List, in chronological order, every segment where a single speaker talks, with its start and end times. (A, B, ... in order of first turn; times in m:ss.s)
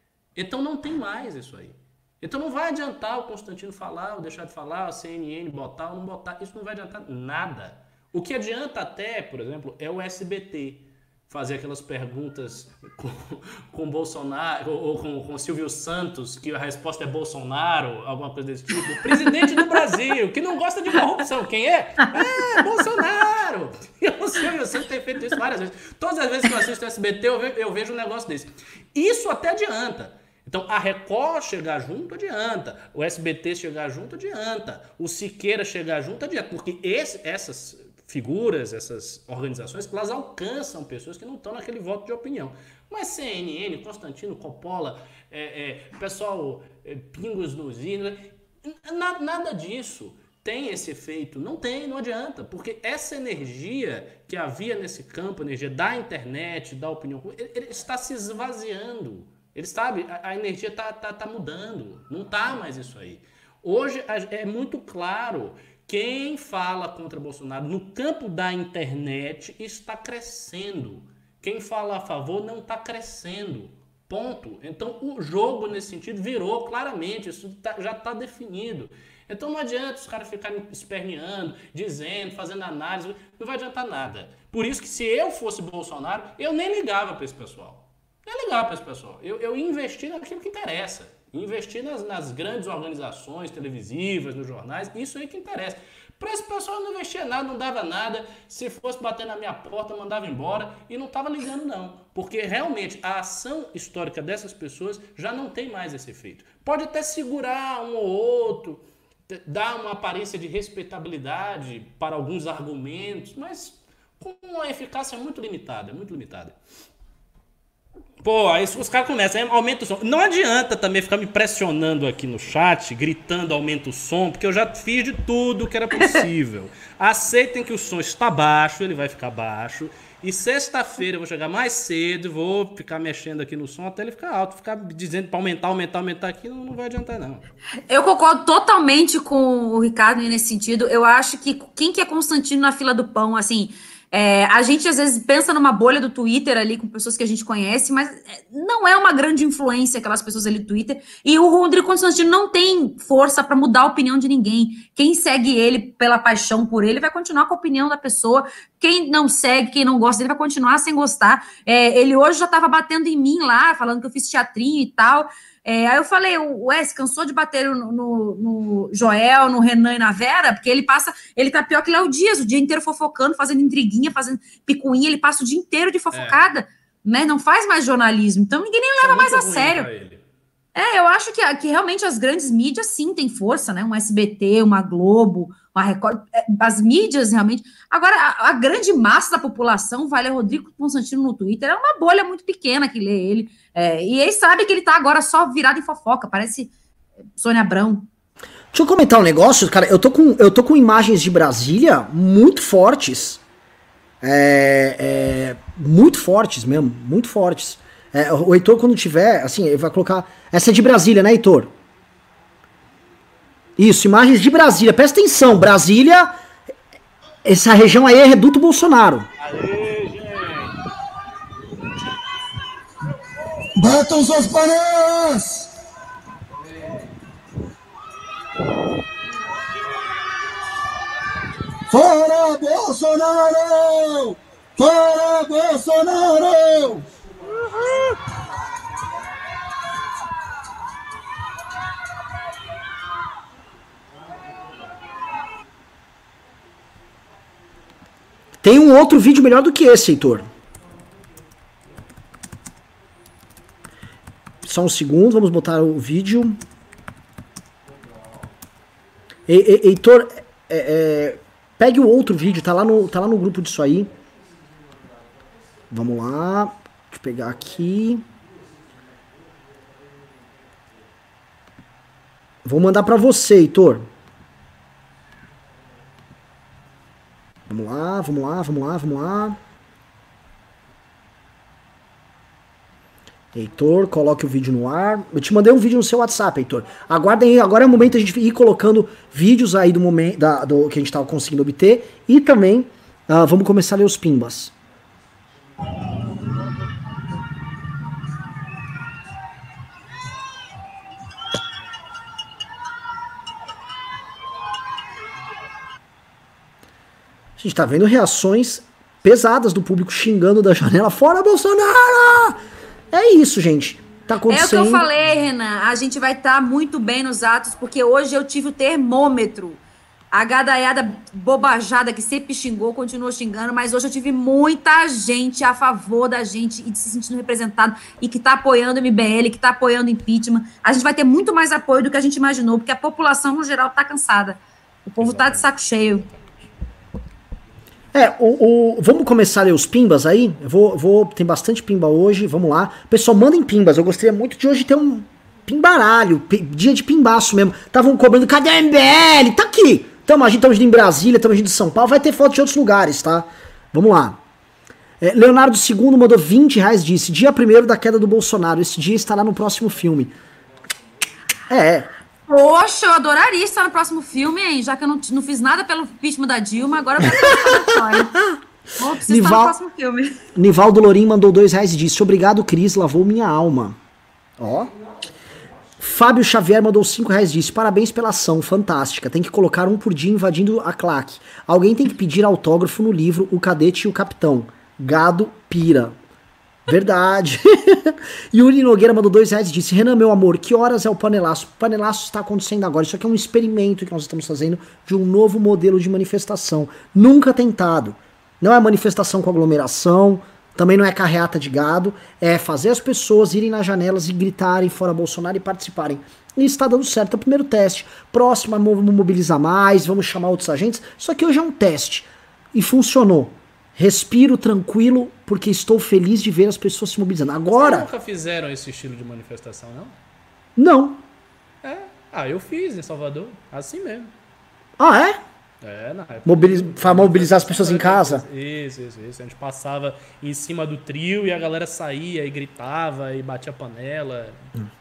0:00.4-1:56.6 A
1:58.2-2:17.5 A
2:17.9-2:59.9 B
2:56.1-2:56.4 A
2:59.0-3:00.2 A
3:00.8-3:16.7 B
3:17.4-3:18.1 B
3:18.7-3:23.4 C
3:24.2-3:31.7 C
3:33.8-3:36.4 C
3:37.4-3:39.3 C
3:39.4-3:40.8 A
3:43.8-3:45.5 D
3:51.9-3:53.4 D
3:54.9-3:56.7 D
4:08.6-4:10.5 C
4:14.6-4:16.6 C
4:19.5-4:24.1 C
4:25.9-4:28.2 C
4:32.6-4:34.1 C
4:37.7-4:39.6 C
4:43.5-4:54.7 C
5:07.6-5:12.6 C
5:13.1-5:15.1 C
5:14.5-5:19.8 B
5:20.3-5:36.2 B
5:35.2-5:36.7 A
5:38.1-5:54.4 C
5:55.2-6:00.3 C
6:01.7-6:02.1 C
6:02.5-6:08.4 B
6:07.2-6:08.5 C
6:09.0-6:10.4 B
6:09.2-6:09.8 C
6:10.6-6:14.0 C
6:14.6-6:14.9 C
6:16.0-6:26.2 C
6:26.9-6:58.1 C
6:57.8-7:00.2 A
7:00.8-7:01.2 C
7:01.8-7:04.3 A
7:05.0-7:05.4 C
7:05.8-7:14.6 A
7:06.4-7:08.4 C